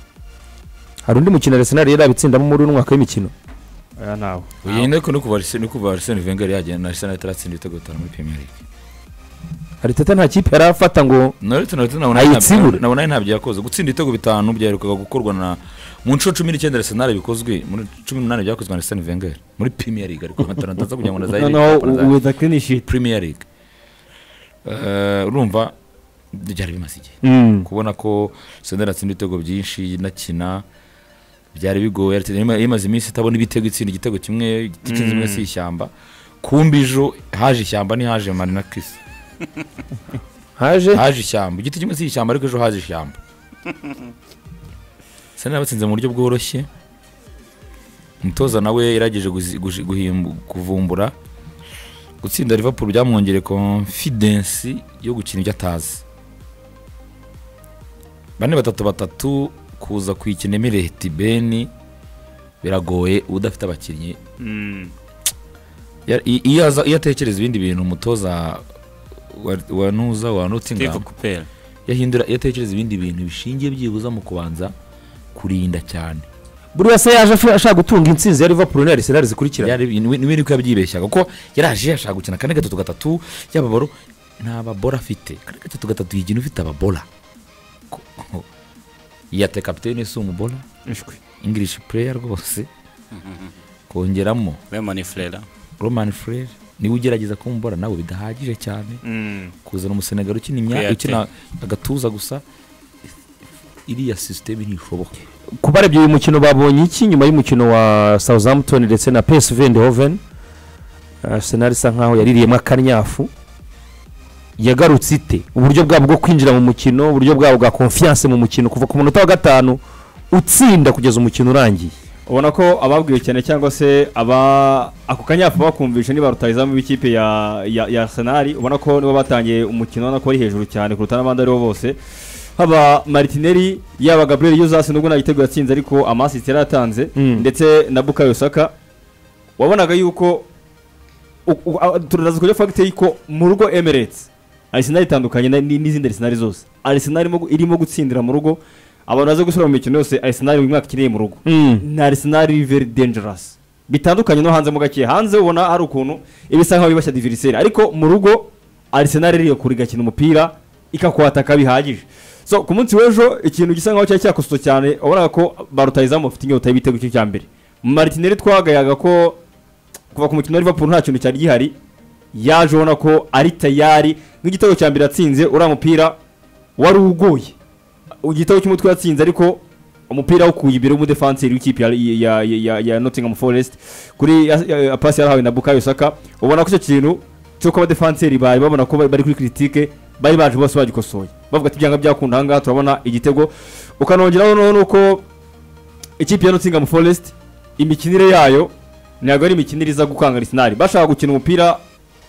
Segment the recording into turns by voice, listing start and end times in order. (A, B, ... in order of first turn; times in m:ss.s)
0:01.1-0:03.3 A
0:04.0-0:04.9 B
0:04.6-0:08.5 C
0:09.8-0:11.4 A
0:11.4-0:22.2 C
0:12.1-0:12.8 A
0:21.4-0:22.9 B
0:22.8-0:23.5 C
0:24.6-0:25.8 C
0:26.3-0:30.6 C
0:27.2-0:27.7 A
0:31.5-0:39.0 C
0:34.9-0:35.4 B
0:40.6-0:41.0 A
0:40.9-0:43.2 C
0:45.4-0:46.7 C
0:48.2-0:51.2 C
0:52.2-0:56.0 C
0:58.4-1:01.7 C
1:02.6-1:04.2 C
1:04.4-1:04.9 D
1:06.1-1:08.6 C
1:09.3-1:11.1 C
1:10.8-1:11.5 D
1:11.9-1:14.7 C
1:15.3-1:16.3 C
1:16.7-1:19.8 A
1:19.6-1:27.1 C
1:27.9-1:28.5 C
1:29.3-1:30.6 C
1:30.9-1:31.2 B
1:31.4-1:32.7 C
1:33.9-1:34.6 C
1:34.7-1:35.4 D
1:35.8-1:39.0 C
1:39.1-1:39.5 B
1:39.6-1:42.4 C
1:40.7-1:41.2 D
1:43.9-1:45.2 C
1:45.6-1:50.2 A
1:51.2-1:53.3 A
1:54.6-2:01.9 A
2:02.3-2:12.0 B
2:12.6-2:18.7 B
2:17.2-2:17.5 A
2:19.6-2:20.5 B
2:21.5-2:49.4 B
2:31.5-2:31.8 A
2:50.1-2:51.8 B
2:52.3-2:56.2 B
2:56.8-2:57.6 B
2:58.2-3:15.2 B
3:16.2-3:21.8 B